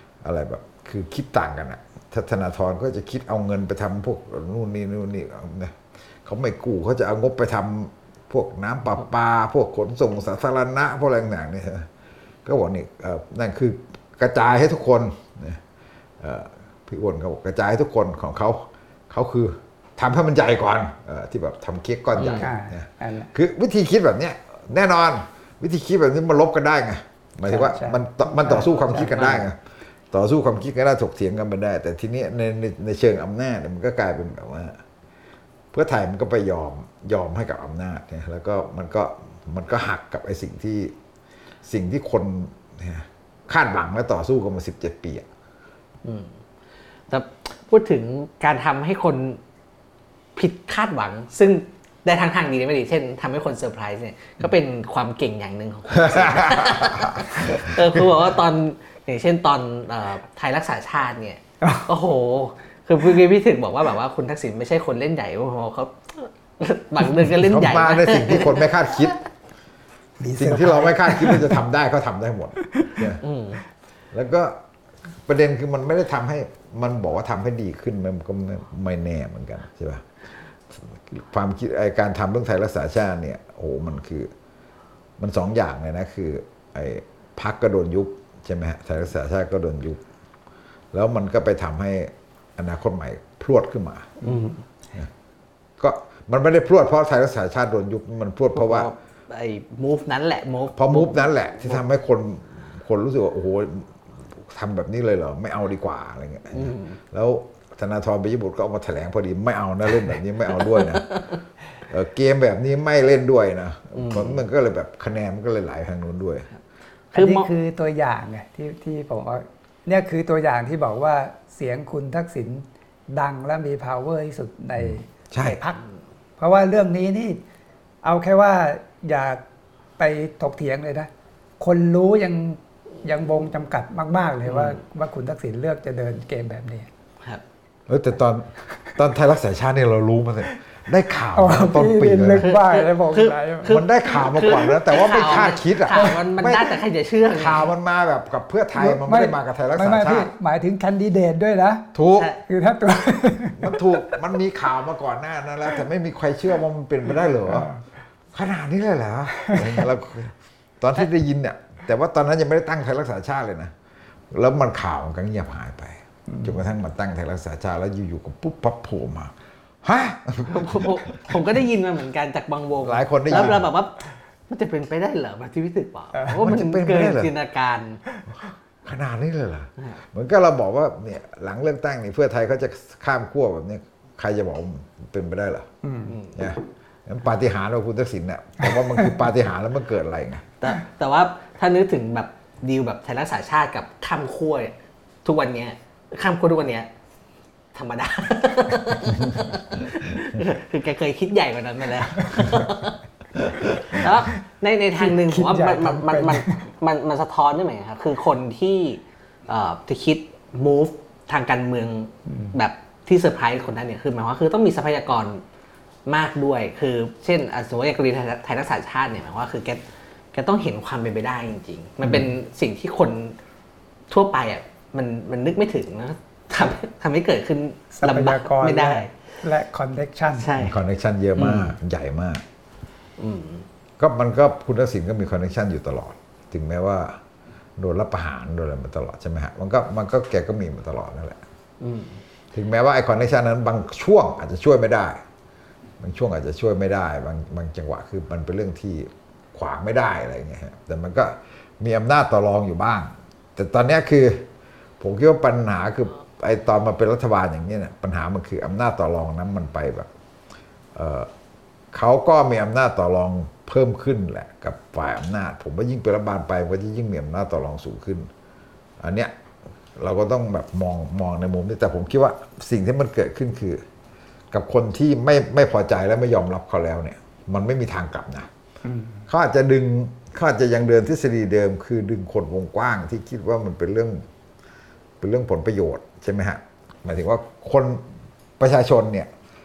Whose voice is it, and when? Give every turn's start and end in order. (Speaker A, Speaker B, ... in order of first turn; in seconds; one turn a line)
Speaker A: 0.2-11.9
Speaker A: 12.4-15.6
Speaker A: 16.2-29.6
Speaker B: 22.2-22.5
Speaker C: 22.4-23.3
Speaker C: 27.5-29.3
Speaker B: 28.9-29.4
Speaker A: 30.1-34.8
Speaker A: 35.7-40.9
Speaker A: 41.6-45.3
Speaker B: 46.0-46.4
Speaker B: 47.1-49.4
Speaker B: 50.4-69.1
Speaker A: 55.9-58.2
Speaker C: 61.6-61.9
Speaker A: 67.2-69.2
Speaker C: 70.2-71.6
Speaker A: 70.4-73.2
Speaker C: 72.7-73.0
Speaker B: 73.2-73.6
Speaker A: 74.1-74.6
Speaker A: 75.2-80.0
Speaker A: 80.7-84.3
Speaker A: 85.2-90.0
Speaker A: 90.9-94.2
Speaker B: 94.2-94.6
Speaker A: 95.8-98.9
Speaker B: 98.5-101.8
Speaker A: 100.8-111.2
Speaker B: 106.5-107.0
Speaker A: 111.9-116.5
Speaker B: 114.0-114.4
Speaker B: 117.1-117.5
Speaker C: 117.1-125.8
Speaker A: 124.8-125.6
Speaker C: 126.4-127.4
Speaker C: 128.0-129.4
Speaker C: 130.0-131.1
Speaker C: 131.6-136.9
Speaker B: 134.4-134.8
Speaker A: 137.9-142.5
Speaker C: 141.3-143.7
Speaker B: 142.4-147.7
Speaker A: 143.7-150.3
Speaker C: 148.7-151.9
Speaker A: 151.9-152.3
Speaker C: 152.4-154.2
Speaker A: 153.5-157.7
Speaker A: 158.3-163.7
Speaker A: 164.3-171.6
Speaker C: 166.3-166.6
Speaker B: 170.5-178.0
Speaker A: 172.8-173.7
Speaker C: 176.1-176.4
Speaker A: 176.3-177.3
Speaker A: 178.3-185.7
Speaker C: 185.8-186.1
Speaker B: 186.1-186.3
Speaker A: 186.3-190.5
Speaker B: 190.6-196.9
Speaker B: 197.7-215.4
Speaker A: 203.4-204.1
Speaker C: 205.0-206.6
Speaker C: 212.3-212.5
Speaker B: 216.1-219.8
Speaker B: 220.3-223.4
Speaker B: 224.1-229.1
Speaker C: 227.9-230.5
Speaker B: 230.4-230.8
Speaker A: 230.6-232.4
Speaker B: 231.4-231.7
Speaker B: 233.2-233.7
Speaker A: 234.0-237.2
Speaker A: 237.8-241.4
Speaker B: 241.8-242.2
Speaker A: 242.5-245.2
Speaker A: 246.0-254.5
Speaker A: 255.0-260.1
Speaker A: 260.9-261.3
Speaker A: 261.9-268.3
Speaker A: 269.0-269.3
Speaker A: 270.0-273.8
Speaker A: 274.5-278.5
Speaker C: 278.8-279.2
Speaker A: 279.3-284.2
Speaker A: 285.2-288.0
Speaker A: 288.6-289.3